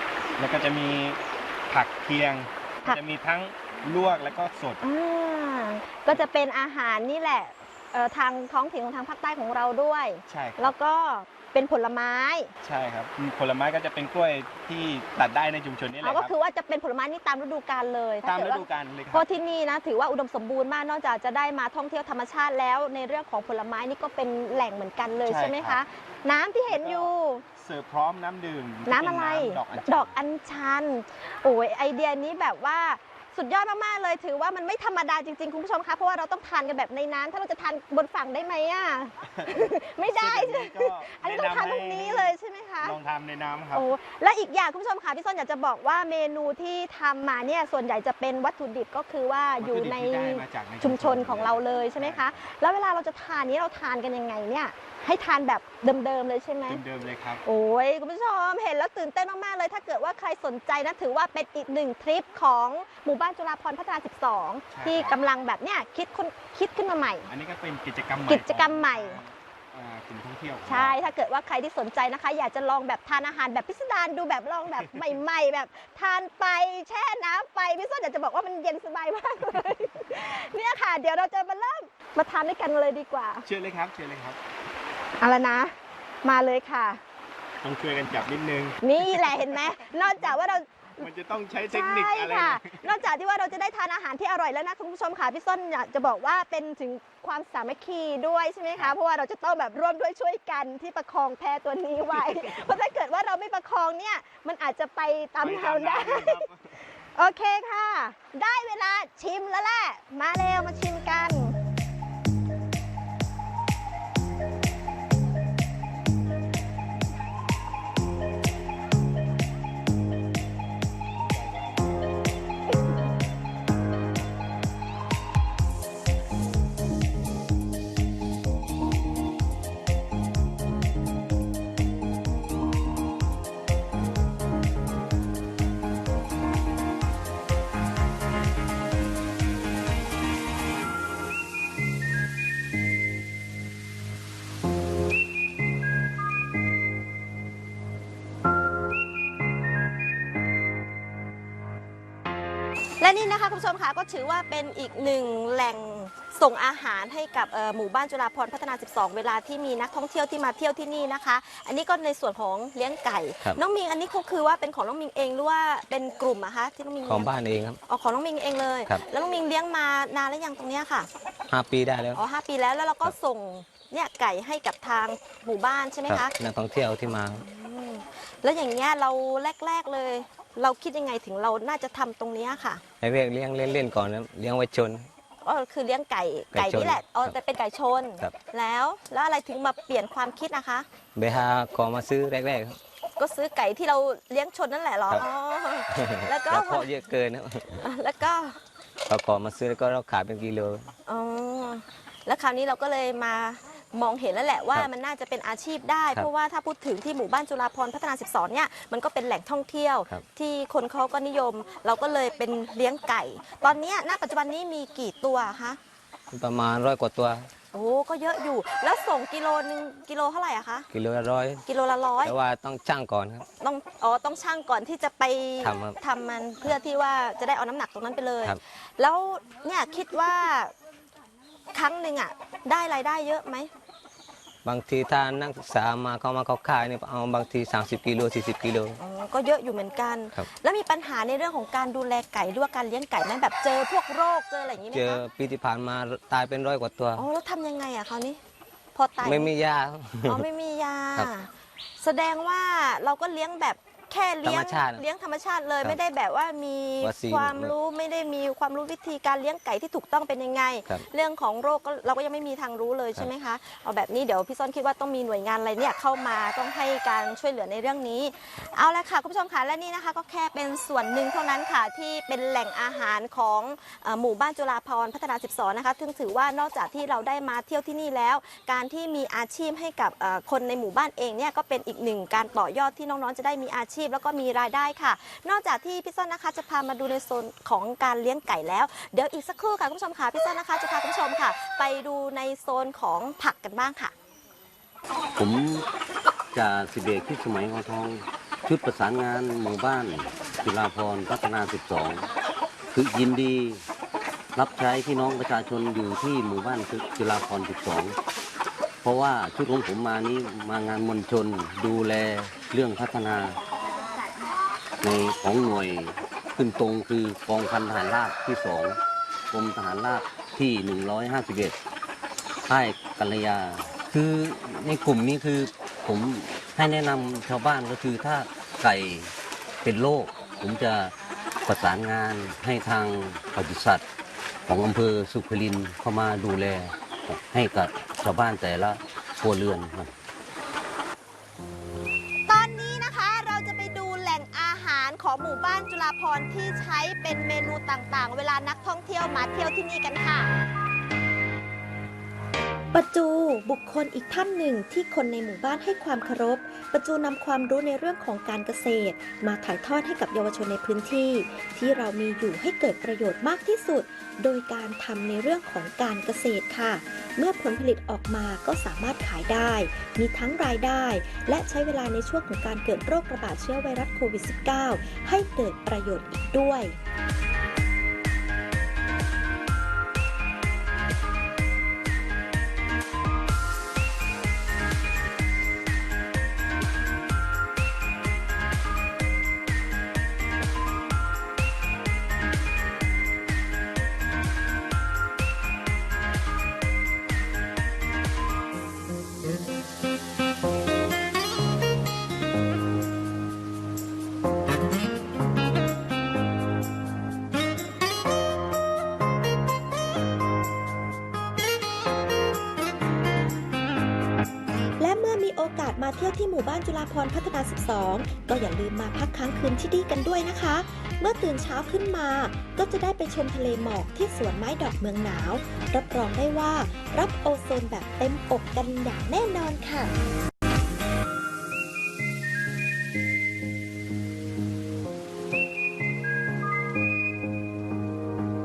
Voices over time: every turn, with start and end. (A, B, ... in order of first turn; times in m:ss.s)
0:00.4-0:04.8 A
0:04.8-0:12.5 B
0:10.3-0:10.7 A
0:12.6-0:16.3 A
0:16.0-0:27.4 B
0:18.2-0:19.3 A
0:25.2-0:25.8 A
0:26.7-0:30.2 A
0:28.8-0:43.0 B
0:39.3-0:43.9 A
0:43.7-0:56.8 B
0:49.6-0:52.3 A
0:56.7-0:57.4 A
0:57.4-1:07.3 B
1:04.7-1:05.1 A
1:07.3-1:11.0 A
1:08.2-1:09.2 B
1:10.6-1:23.4 B
1:23.4-1:24.4 A
1:25.2-1:27.0 B
1:27.6-1:29.4 A
1:28.8-1:31.0 B
1:31.0-1:32.9 A
1:31.7-1:46.4 B
1:45.4-1:46.8 A
1:47.0-1:51.5 B
2:33.0-2:47.3 B
2:47.0-2:47.8 C
2:47.9-2:51.1 B
2:51.5-2:52.2 C
2:52.1-2:56.3 B
2:56.1-2:57.4 C
2:57.1-3:02.8 B
3:03.0-3:05.1 C
3:05.4-3:10.8 B
3:06.5-3:07.3 C
3:11.2-3:12.8 C
3:13.2-3:16.9 B
3:15.9-3:17.8 C
3:17.8-3:18.6 B
3:19.1-3:20.9 C
3:21.1-3:35.8 B
3:36.3-3:37.5 C
3:37.7-3:40.9 B
3:40.9-3:41.6 C
3:41.6-3:42.4 B
3:42.2-3:43.5 C
3:43.6-3:50.7 B
3:45.6-3:46.0 C
3:51.7-3:53.7 B
3:54.6-3:59.0 C
3:59.0-4:05.2 B
4:04.9-4:07.2 C
4:07.1-4:08.4 B
4:08.9-4:09.5 B
4:09.2-4:10.4 C
4:10.2-4:11.5 B
4:12.0-4:54.1 B
4:14.4-4:15.0 C
4:17.0-4:17.7 C
4:55.4-4:55.8 D
4:56.5-5:02.2 D
5:02.9-5:03.8 D
5:04.5-5:08.2 D
5:09.0-5:13.6 D
5:15.0-5:19.0 D
5:19.5-5:21.8 D
5:22.7-5:31.1 D
5:31.6-5:34.0 D
5:34.6-5:40.1 D
5:42.5-5:50.5 B
5:52.9-6:17.0 E
6:55.0-7:10.1 E